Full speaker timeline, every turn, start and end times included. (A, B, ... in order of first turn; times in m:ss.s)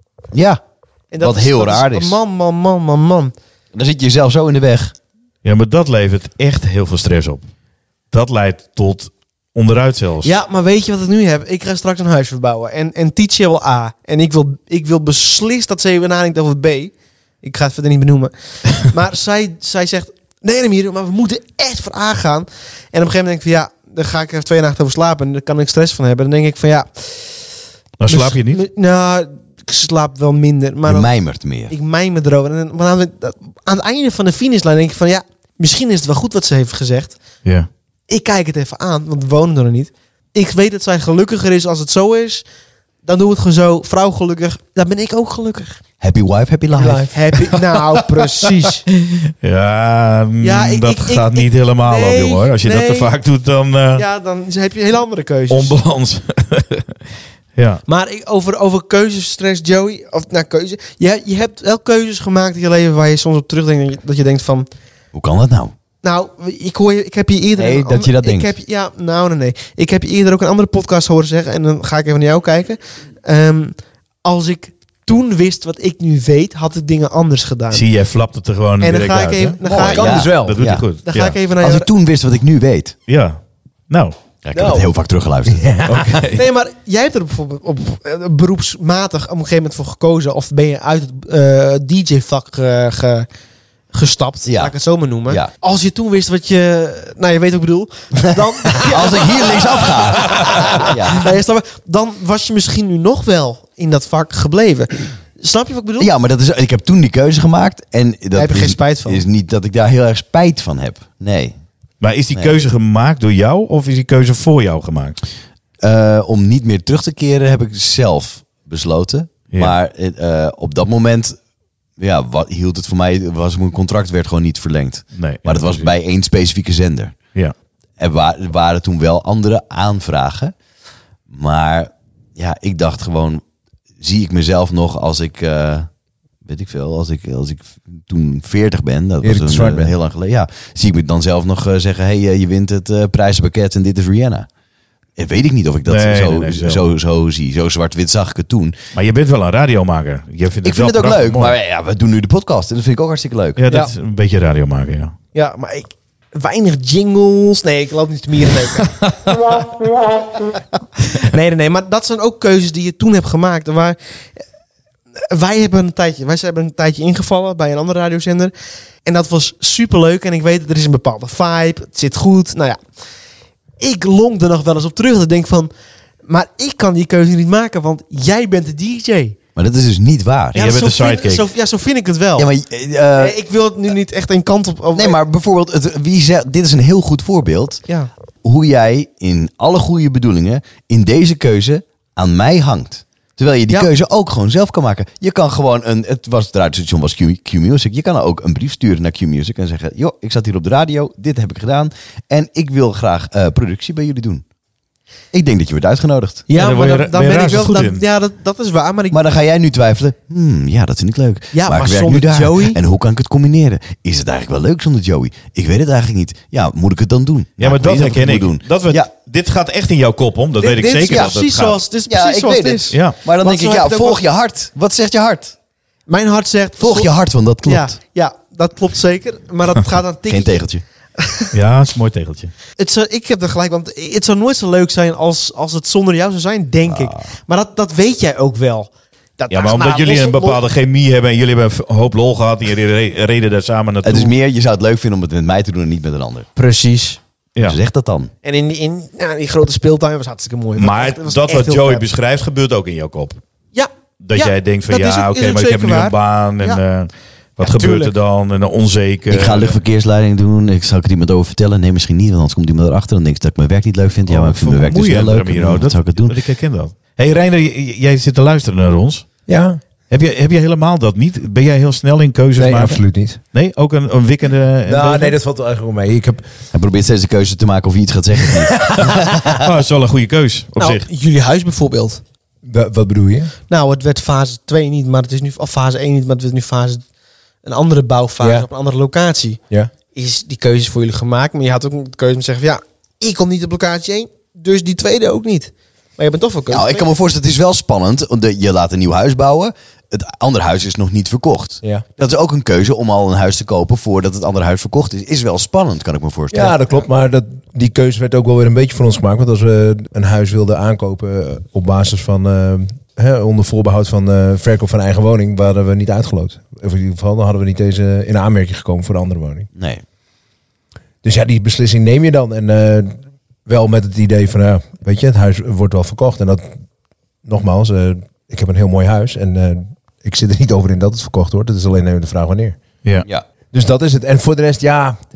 0:00.3-0:00.6 A
0:01.1-0:03.3 B
0:01.2-0:02.2 A
0:03.7-0:04.9 A
0:05.4-0:07.4 C
0:08.1-0:10.3 C
0:10.2-0:27.4 B
0:28.0-0:28.6 C
0:28.1-0:31.1 B
0:30.9-0:31.7 A
0:31.7-0:37.2 B
0:38.1-0:42.4 B
0:43.0-0:45.8 B
0:46.0-0:47.1 A
0:46.8-0:47.2 D
0:46.8-0:48.8 B
0:49.1-0:54.0 C
0:50.4-0:53.1 B
0:54.0-0:55.8 B
0:55.5-0:56.9 C
0:57.6-0:57.8 C
0:57.9-1:04.7 B
1:05.1-1:05.7 A
1:06.0-1:17.8 B
1:07.6-1:08.5 A
1:17.7-1:21.4 C
1:18.8-1:20.3 B
1:19.6-1:20.8 A
1:19.7-1:20.6 D
1:21.0-1:21.9 B
1:21.6-1:23.0 A
1:23.1-1:23.4 C
1:23.9-1:24.2 C
1:24.4-1:25.8 A
1:24.5-1:24.9 D
1:25.4-1:26.4 D
1:25.9-1:26.4 C
1:26.3-1:33.3 B
1:33.9-1:46.1 B
1:34.5-1:34.8 A
1:38.7-1:41.4 A
1:46.0-1:51.6 A
1:48.3-1:49.2 B
1:52.0-1:55.2 C
1:55.8-2:01.4 A
1:59.5-1:59.8 C
2:02.0-2:07.2 A
2:05.2-2:05.9 C
2:08.0-2:10.5 A
2:11.3-2:13.4 A
2:14.0-2:15.9 A
2:16.4-2:24.5 A
2:19.2-2:20.0 D
2:25.2-2:28.8 A
2:25.9-2:26.9 C
2:28.9-2:31.6 C
2:30.6-2:33.6 A
2:33.6-2:35.2 C
2:35.3-2:38.9 B
2:41.1-2:44.0 B
2:45.2-2:48.5 B
2:49.0-2:52.8 B
2:53.8-2:55.7 B
2:56.3-2:59.4 B
2:59.6-3:00.6 A
3:00.5-3:02.5 B
3:00.6-3:01.5 C
3:02.4-3:03.4 A
3:03.2-3:05.2 B
3:05.0-3:07.8 A
3:08.4-3:24.4 A
3:25.3-3:26.5 A
3:26.5-3:29.2 B
3:26.6-3:28.0 C
3:29.1-3:39.1 A
3:31.5-3:32.8 B
3:37.6-3:41.8 C
3:40.6-3:44.2 B
3:41.1-3:41.4 A
3:42.1-3:45.5 A
3:42.9-3:43.2 C
3:46.1-3:50.6 B
3:46.8-3:47.9 A
3:50.3-3:50.8 A
3:51.2-3:51.5 B
3:51.5-3:52.5 C
3:52.8-4:00.6 B
3:56.9-3:57.3 A
3:59.5-4:04.3 C
4:04.0-4:06.5 A
4:06.6-4:07.2 B
4:07.6-4:08.3 A
4:08.4-4:12.0 B
4:10.8-4:13.4 C
4:13.7-4:16.8 B
4:14.2-4:19.8 C
4:17.6-4:18.1 B
4:19.3-4:26.4 A
4:24.3-4:29.3 C
4:29.5-4:29.8 D
4:30.1-4:35.4 C
4:32.6-4:33.4 D
4:34.9-4:36.4 D
4:36.7-4:39.6 A
4:38.6-4:39.2 D
4:39.4-4:41.0 C
4:40.8-4:42.2 B
4:42.6-4:43.5 D
4:43.7-4:47.0 B
4:47.6-4:49.6 B
4:48.4-4:48.7 D
4:50.1-4:57.1 B
4:56.7-5:06.8 A
5:06.5-5:19.7 D
5:19.8-5:20.0 A
5:21.2-5:26.7 D
5:27.4-5:32.8 D
5:33.7-5:35.2 D